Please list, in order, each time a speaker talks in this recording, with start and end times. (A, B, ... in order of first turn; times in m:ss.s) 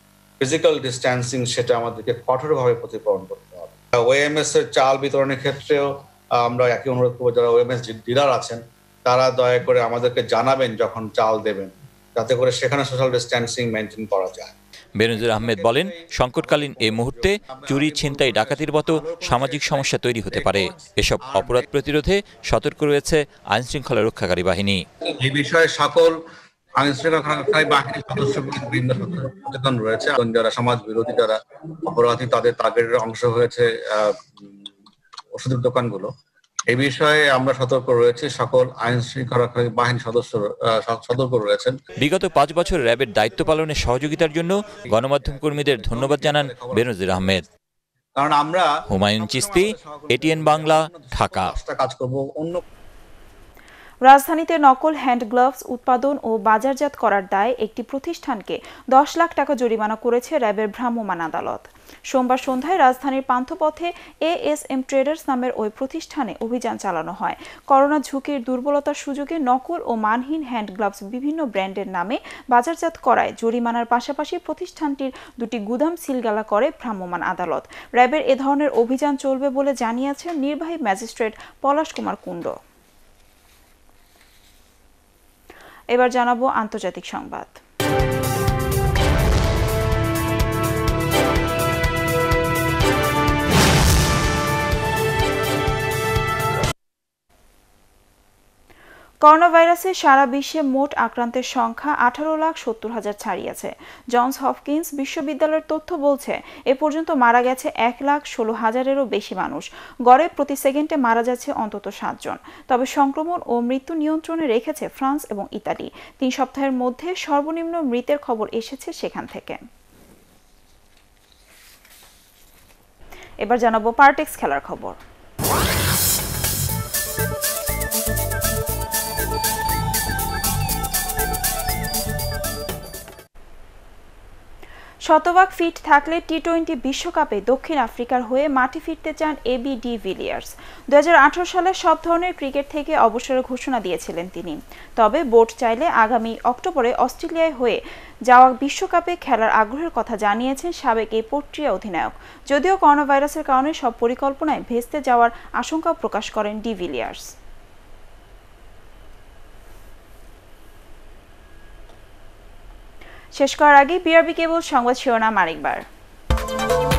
0:00.4-0:14.5 A
0:15.0-0:24.8 B
0:15.1-0:21.7 A
0:25.2-0:26.1 A
0:26.8-0:34.3 A
0:35.4-0:36.1 A
0:36.7-0:41.8 A
0:42.0-0:47.4 B
0:44.1-0:47.0 A
0:48.2-0:52.6 A
0:48.9-0:51.5 B
0:54.0-1:22.6 C
1:25.9-1:27.6 C
1:39.2-1:59.6 C
2:03.4-2:05.0 C
2:15.1-2:37.3 C
2:43.4-2:45.8 C